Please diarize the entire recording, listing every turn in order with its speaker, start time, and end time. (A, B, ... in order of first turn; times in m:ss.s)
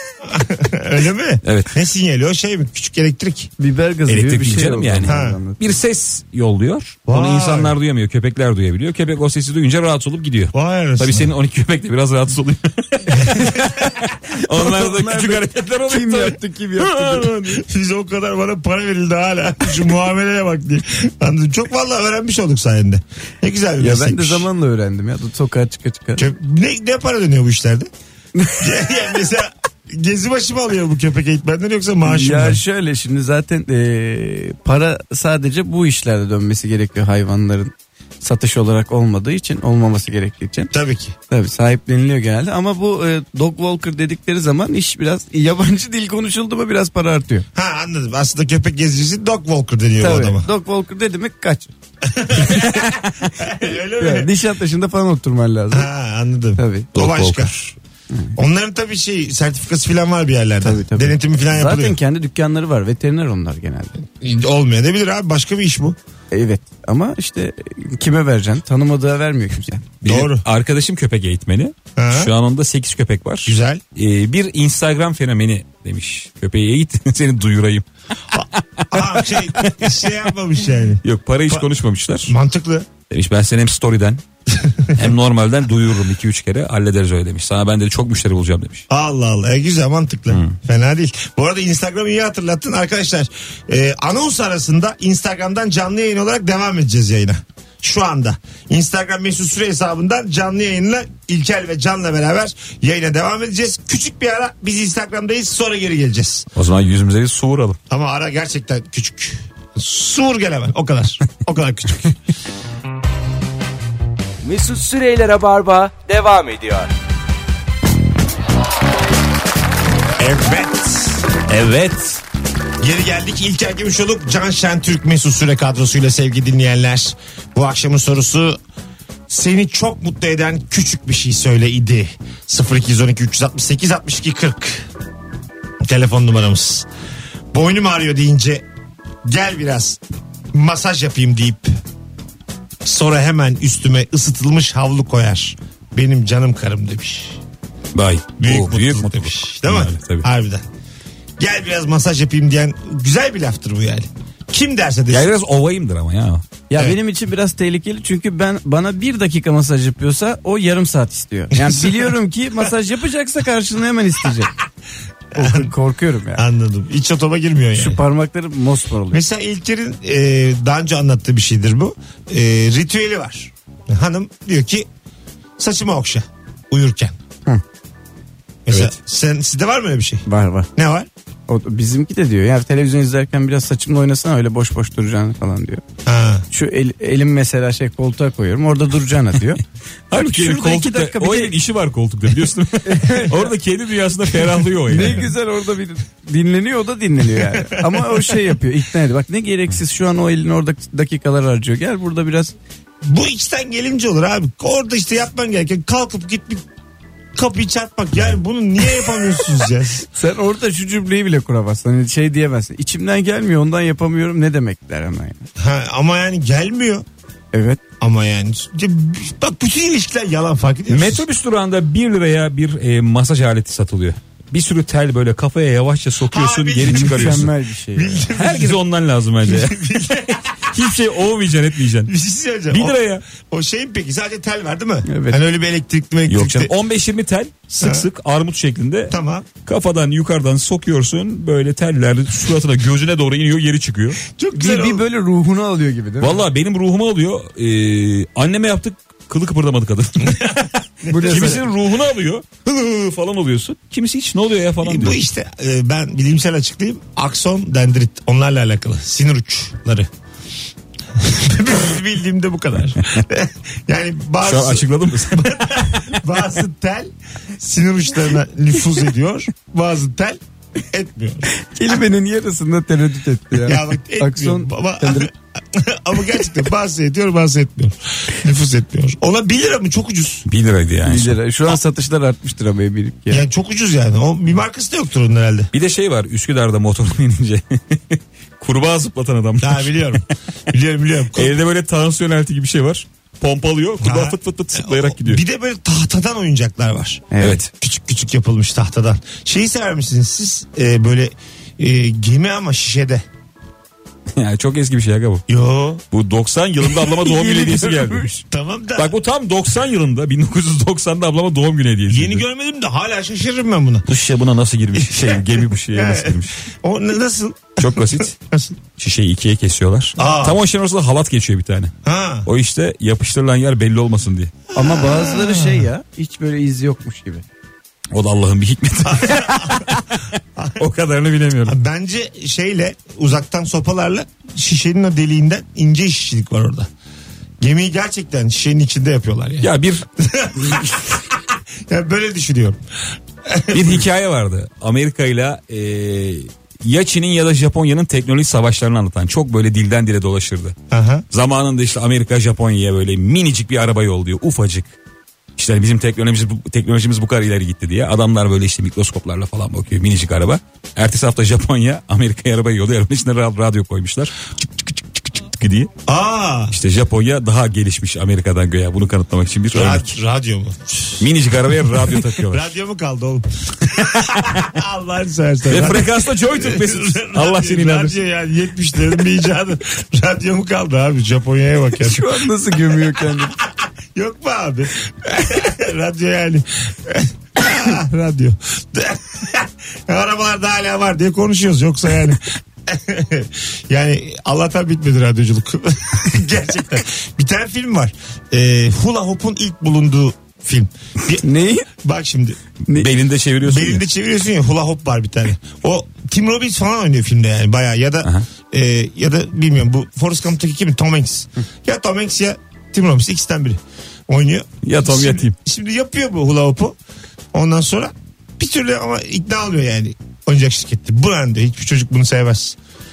0:00.2-0:03.5 A
0:01.4-0:01.8 B
0:03.6-0:05.8 C
0:04.1-0:17.6 B
0:05.0-0:05.4 A
0:07.1-0:07.8 A
0:10.5-0:11.3 A
0:13.1-0:13.7 A
0:14.3-0:17.4 C
0:17.4-0:24.5 A
0:23.8-0:26.3 C
0:26.2-0:27.9 A
0:28.4-0:28.7 C
0:28.6-0:32.6 A
0:32.0-0:40.7 C
0:40.7-0:41.2 A
0:41.3-0:47.4 C
0:47.6-0:50.5 A
0:50.0-0:51.7 C
0:52.0-0:54.3 A
0:52.4-0:52.9 C
0:53.5-0:55.9 C
0:55.7-0:57.7 A
0:56.6-0:56.9 C
0:57.0-0:57.6 B
0:58.4-1:02.0 A
1:00.6-1:04.0 C
1:04.2-1:06.0 A
1:06.3-1:09.9 C
1:10.0-1:17.9 B
1:10.0-1:10.4 A
1:12.0-1:12.3 A
1:13.5-1:13.8 A
1:18.3-1:21.7 A
1:18.8-1:19.8 B
1:21.0-1:22.3 B
1:22.3-1:22.9 A
1:23.1-1:24.2 B
1:24.6-1:25.0 A
1:24.9-1:28.9 B
1:28.9-1:46.5 A
1:30.3-1:30.6 B
1:46.6-1:47.8 B
1:47.9-1:52.2 A
1:54.4-1:56.9 D
2:00.2-2:01.3 A
2:01.5-2:02.2 B
2:02.8-2:08.6 A
2:09.3-2:14.9 A
2:15.8-2:16.9 A
2:17.5-2:18.6 A
2:19.3-2:20.0 A
2:20.5-2:21.8 A
2:22.8-2:27.4 A
2:27.9-2:30.3 B
2:28.4-2:30.7 A
2:31.4-2:35.3 A
2:35.1-2:36.4 B
2:36.7-2:44.5 C
2:41.6-2:42.1 A
2:45.3-2:46.4 C
2:45.4-2:45.7 A
2:46.4-2:48.0 A
2:47.7-2:49.2 C
2:49.1-2:54.9 A
2:55.6-2:57.2 A
2:58.7-3:01.1 A
3:00.3-3:00.7 C
3:01.5-3:05.8 C
3:06.1-3:06.5 A
3:06.5-3:11.6 C
3:10.1-3:15.3 B
3:12.8-3:13.5 C
3:14.9-3:22.5 C
3:17.5-3:18.4 A
3:23.0-3:26.6 A
3:27.4-3:30.0 A
3:30.1-3:35.4 C
3:35.6-3:37.0 A
3:37.5-3:37.8 C
3:38.0-3:41.2 A
3:40.9-3:47.5 B
3:46.3-3:48.8 A
3:46.8-3:48.3 C
3:48.3-3:52.1 B
3:49.4-3:50.7 A
3:52.1-3:56.7 A
3:52.7-3:53.2 B
3:55.1-3:55.4 C
3:56.3-3:59.1 B
3:57.8-3:58.1 A
3:59.1-3:59.5 A
3:59.6-4:04.2 B
4:04.3-4:05.0 A
4:04.5-4:06.4 C
4:06.2-4:10.5 B
4:10.2-4:11.6 A
4:11.1-4:11.6 C
4:11.2-4:15.2 B
4:14.8-4:20.1 A
4:21.2-4:31.5 A
4:24.4-4:26.2 B
4:31.6-4:35.3 C
4:33.6-4:40.5 A
4:40.5-4:41.4 B
4:41.1-4:43.4 C
4:43.3-4:45.7 A
4:45.7-4:50.3 B
4:49.6-4:51.6 A
4:51.3-4:55.4 B
4:54.0-5:03.2 A
4:57.3-4:57.6 C
4:57.4-4:57.7 B
5:04.4-5:05.4 B
5:05.5-5:06.0 A
5:06.1-5:08.4 B
5:07.1-5:08.3 C
5:08.5-5:09.1 A
5:09.0-5:12.4 B
5:12.1-5:14.1 A
5:14.1-5:16.6 B
5:15.0-5:18.8 A
5:17.8-5:18.3 B
5:19.0-5:21.9 B
5:20.2-5:20.6 A
5:22.0-5:22.5 A
5:22.4-5:24.5 B
5:24.8-5:25.9 A
5:24.8-5:27.4 C
5:28.1-5:30.2 B
5:29.0-5:30.0 A
5:30.8-5:31.8 B
5:31.7-5:36.9 A
5:37.6-5:42.8 A
5:39.6-5:40.1 B
5:43.4-5:44.0 A
5:43.7-5:50.8 B
5:50.9-5:51.3 A
5:51.3-5:54.9 B
5:55.6-6:05.9 B
6:06.1-6:06.8 A
6:06.7-6:10.1 B
6:09.7-6:11.3 A
6:11.2-6:12.7 B
6:11.9-6:42.6 A
6:14.2-6:14.6 B
6:15.7-6:18.2 B
6:22.0-6:23.6 C
6:41.4-6:41.9 C
6:42.9-6:43.1 C
6:43.0-6:44.0 B
6:43.6-6:57.0 A
6:54.8-6:55.6 B
6:57.5-7:02.8 A